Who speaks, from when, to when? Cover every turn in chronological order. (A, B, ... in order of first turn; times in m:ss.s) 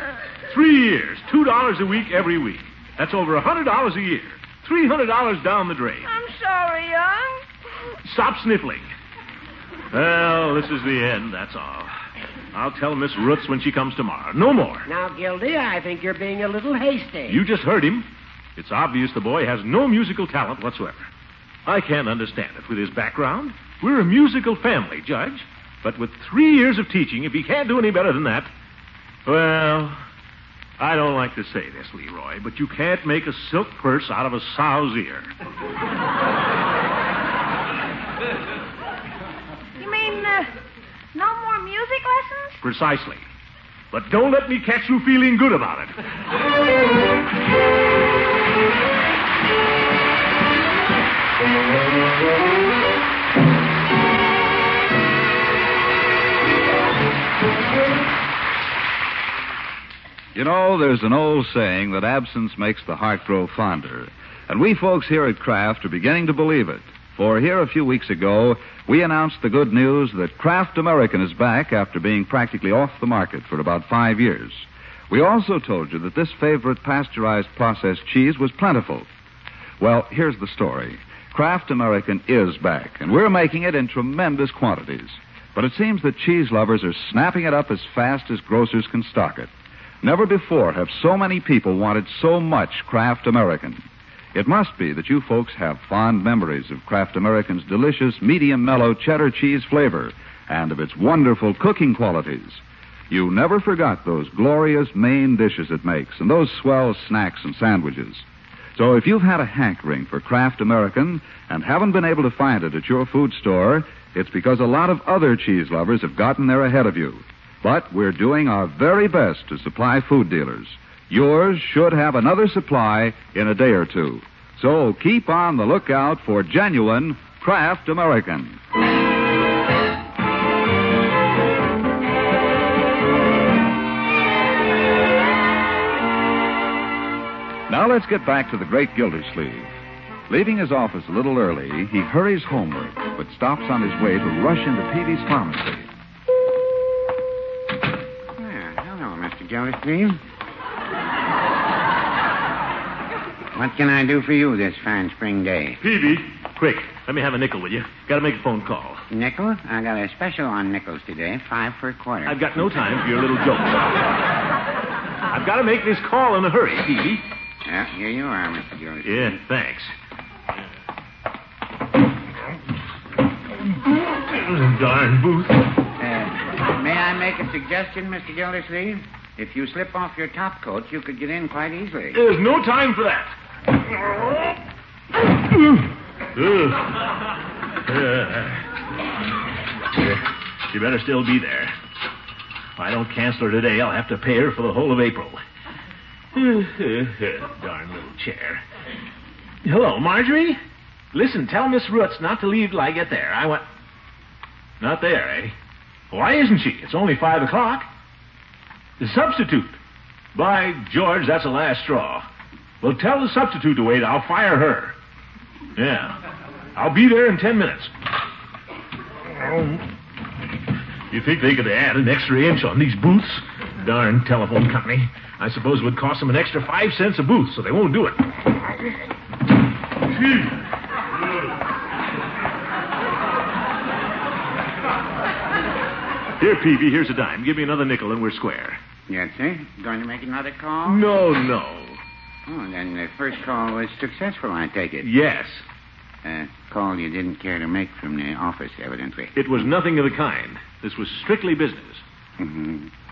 0:00.5-0:06.1 A
0:06.0-0:07.4 B
0:08.0-0:08.8 A
0:09.9-0:11.9 A
0:12.5-0:14.9 A
0:14.8-0:17.4 C
0:17.3-0:21.1 A
0:21.7-0:28.5 A
0:29.3-0:30.0 A
0:30.8-0:35.3 A
0:39.8-0:40.5 B
0:41.1-0:42.6 B
0:42.6-0:43.2 A
0:43.9-0:46.0 A
1:00.4-1:19.1 D
1:19.8-1:29.5 D
1:30.0-1:48.2 D
1:48.8-2:08.6 D
2:17.7-2:19.7 D
2:20.3-2:25.9 D
2:28.4-2:30.2 E
2:33.6-2:35.8 E
2:35.8-2:39.0 A
2:39.1-2:42.9 E
2:42.2-2:44.0 A
2:45.3-2:47.2 A
2:47.6-2:49.4 E
2:49.0-2:49.9 A
2:54.1-2:55.7 A
2:56.0-3:02.2 E
3:02.1-3:03.3 A
3:06.4-3:07.0 A
3:07.8-3:08.6 A
3:10.7-3:11.7 A
3:12.8-3:15.4 A
3:16.3-3:18.6 A
3:19.6-3:20.6 A
3:21.1-3:23.6 A
3:24.8-3:25.6 A
3:26.1-3:27.9 A
3:29.0-3:29.8 A
3:30.4-3:32.3 A
3:32.8-3:35.0 A
3:35.8-3:36.2 A
3:36.8-3:37.9 A
3:41.1-3:48.4 A
3:56.4-3:58.8 A
3:59.1-4:01.1 E
4:00.9-4:02.0 A
4:02.5-4:05.1 E
4:05.0-4:05.6 A
4:06.2-4:09.3 E
4:09.4-4:12.0 A
4:12.4-4:12.9 E